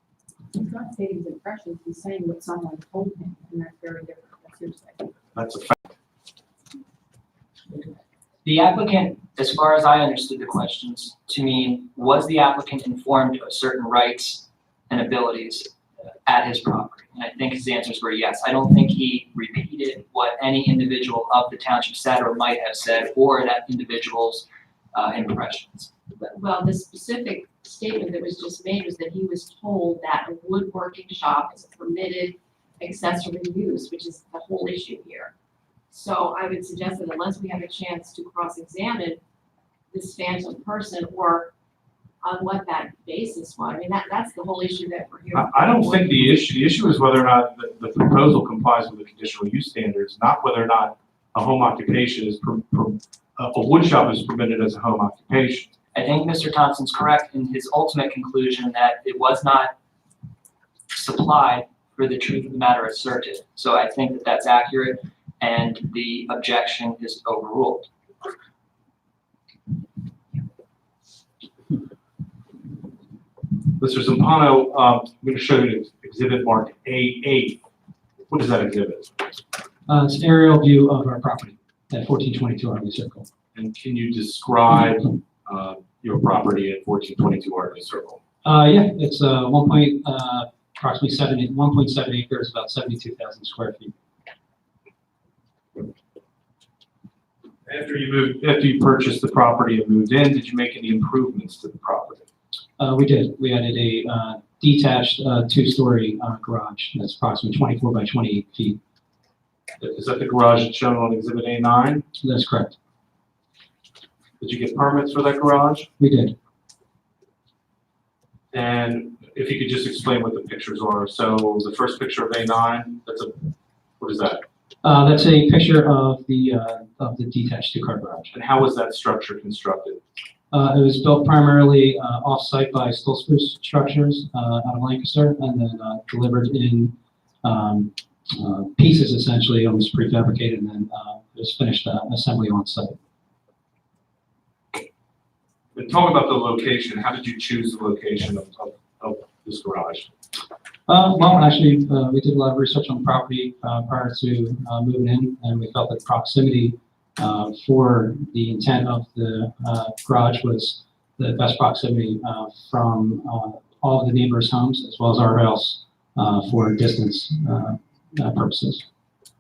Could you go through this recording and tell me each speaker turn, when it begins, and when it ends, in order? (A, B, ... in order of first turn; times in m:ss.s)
0:00.5-0:05.2 A
0:05.3-0:05.8 B
0:08.4-0:15.7 C
0:16.2-0:25.9 C
0:26.2-0:35.3 A
0:35.9-0:39.2 A
0:39.9-0:41.5 A
0:42.2-0:46.4 A
0:45.3-0:55.7 B
0:55.9-0:59.7 C
1:00.9-1:07.9 C
1:13.8-1:17.6 B
1:18.3-1:19.4 B
1:19.9-1:23.2 D
1:23.5-1:28.2 B
1:28.4-1:33.9 D
1:37.6-1:42.2 B
1:42.8-1:48.8 D
1:49.8-1:52.0 B
1:52.2-1:52.8 D
1:54.4-1:55.9 B
1:56.0-1:56.3 D
1:58.5-2:03.5 B
2:04.0-2:04.4 B
2:04.8-2:08.3 D
2:08.3-2:10.0 B
2:10.5-2:23.0 D
2:25.7-2:30.1 B
2:30.9-2:48.8 D